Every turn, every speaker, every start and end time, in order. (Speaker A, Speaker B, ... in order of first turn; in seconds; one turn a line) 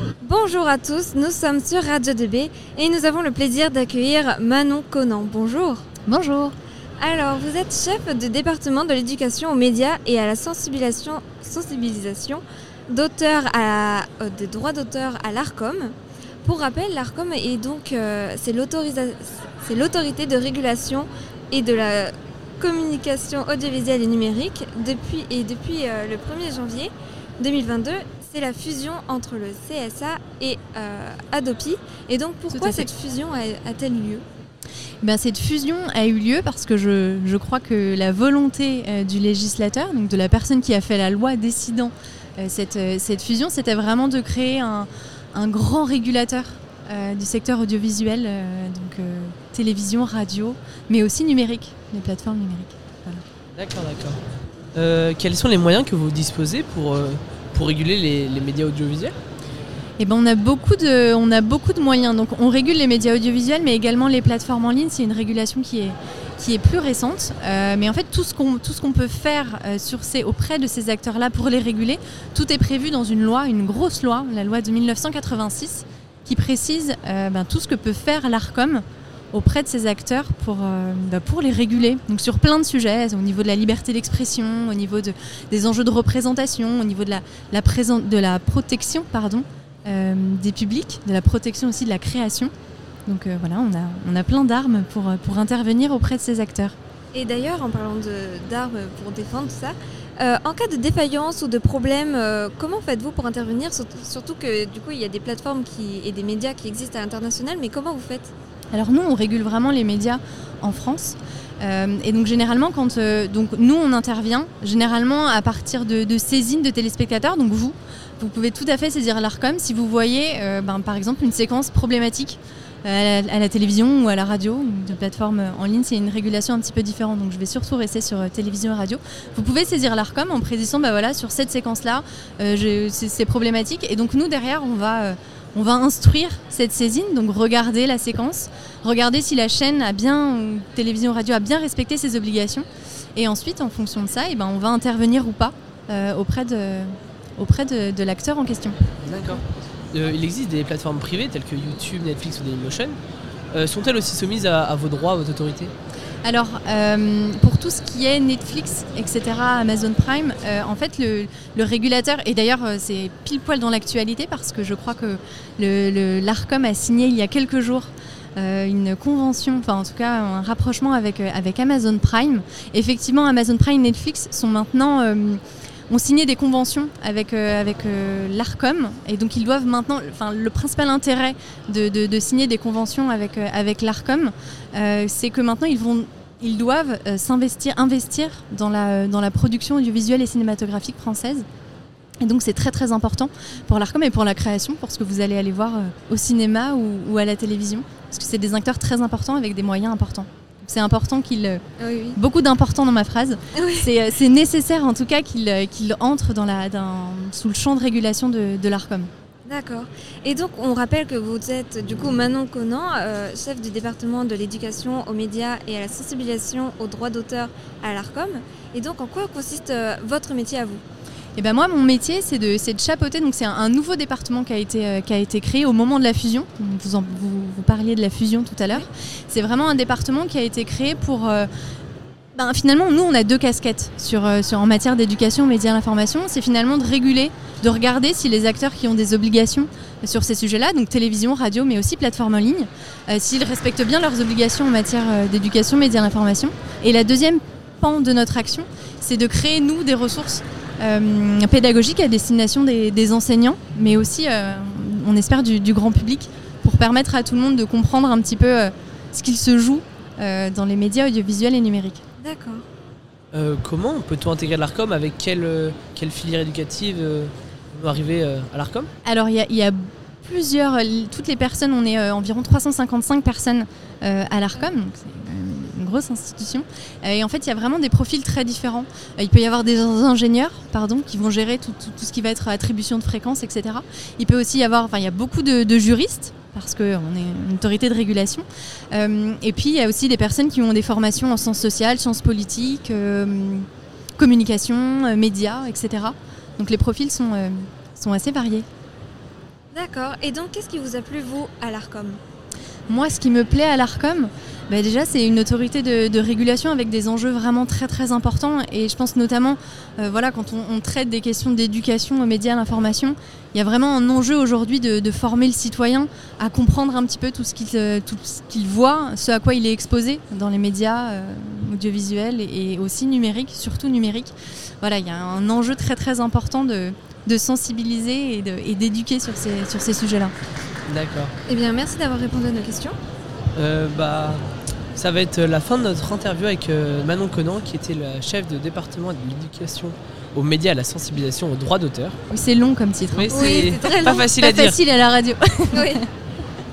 Speaker A: 0.2-5.9
Speaker B: 6.1-6.5
Speaker A: 7.0-34.2
Speaker B: 32.5-32.9
Speaker B: 35.0-53.2
Speaker C: 53.6-54.2
Speaker C: 54.8-59.1
Speaker B: 60.0-92.5
Speaker B: 93.1-96.8
Speaker A: 97.1-108.3
Speaker B: 108.7-142.7
Speaker B: 143.2-148.8
Speaker C: 149.0-153.0
Speaker C: 153.5-155.7
Speaker B: 156.2-191.4
Speaker B: 192.2-201.6
Speaker A: 201.8-202.2
Speaker B: 202.2-209.1
Speaker A: 203.6-203.9
Speaker A: 209.5-220.8
Speaker B: 221.4-231.5
Speaker B: 232.3-262.0
Speaker A: 262.2-262.6
Speaker C: 263.3-268.9
Speaker B: 269.0-298.7
Speaker A: 299.7-302.2
Speaker B: 302.9-330.3
Speaker C: 330.9-331.3
Speaker A: 331.5-333.0
Speaker C: 333.6-334.4
Speaker C: 335.0-342.2
Speaker B: 342.3-343.5
Speaker C: 343.1-344.8
Speaker A: 343.3-344.3
Speaker B: 344.4-346.1
Speaker A: 345.7-346.0